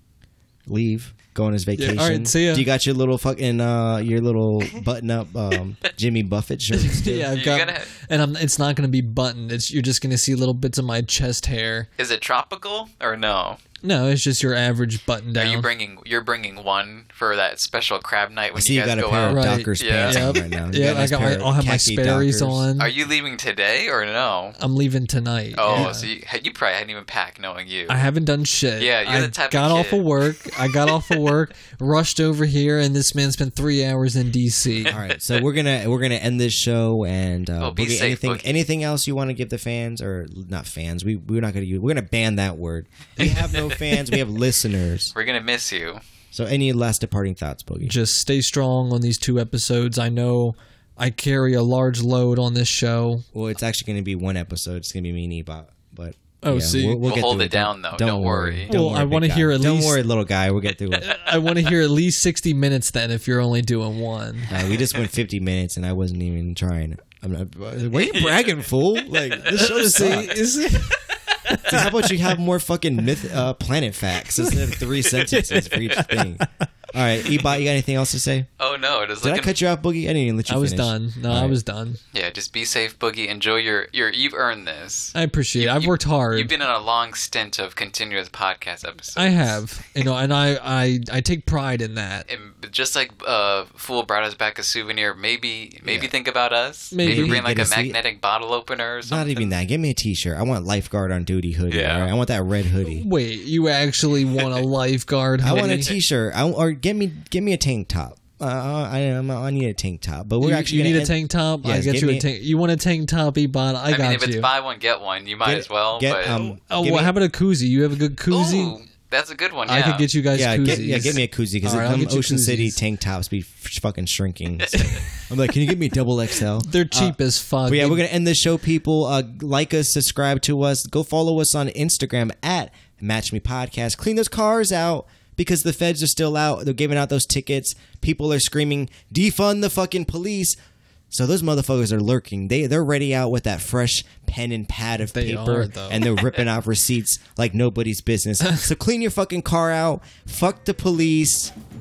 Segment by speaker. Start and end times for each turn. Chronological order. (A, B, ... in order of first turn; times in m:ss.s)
0:00.7-0:07.3 A
0:01.8-0:02.7 B
0:06.7-0:11.9 B
0:07.4-0:07.9 C
0:12.0-0:13.6 C
0:13.8-0:15.7 B
0:15.4-0:20.5 C
0:18.5-0:22.6 A
0:19.3-0:22.9 B
0:22.8-0:24.6 C
0:24.6-0:26.1 B
0:25.6-0:28.0 C
0:25.7-0:26.0 A
0:27.9-0:35.0 B
0:28.8-0:31.2 C
0:34.9-0:45.1 A
0:34.9-0:35.2 C
0:37.6-0:38.6 C
0:43.2-0:44.2 C
0:45.1-0:46.0 C
0:46.3-0:48.0 A
0:47.8-0:53.3 B
0:53.3-1:01.2 A
0:56.4-0:57.0 B
0:57.0-0:58.7 C
0:58.7-1:00.0 B
1:01.0-1:04.5 B
1:04.5-1:10.5 A
1:04.5-1:04.8 C
1:07.9-1:08.5 C
1:09.4-1:11.9 B
1:11.5-1:18.5 A
1:15.4-1:16.0 C
1:15.5-1:16.5 B
1:18.6-1:19.6 C
1:19.2-1:21.6 A
1:20.5-1:22.0 B
1:22.1-1:29.6 C
1:25.2-1:26.5 B
1:29.2-1:32.3 B
1:32.3-1:39.5 C
1:35.8-1:36.1 A
1:36.9-1:37.4 B
1:37.0-1:38.0 A
1:39.1-1:43.1 A
1:41.7-1:42.1 C
1:42.8-1:45.9 B
1:45.4-1:52.3 A
1:45.5-1:46.0 C
1:50.4-1:54.5 B
1:53.9-1:56.4 C
1:55.4-1:57.1 A
1:56.3-1:58.8 B
1:58.3-2:00.1 C
1:59.7-2:02.8 B
2:00.4-2:20.6 A
2:04.6-2:05.1 C
2:06.6-2:08.0 B
2:21.1-2:31.5 A
2:25.1-2:26.0 B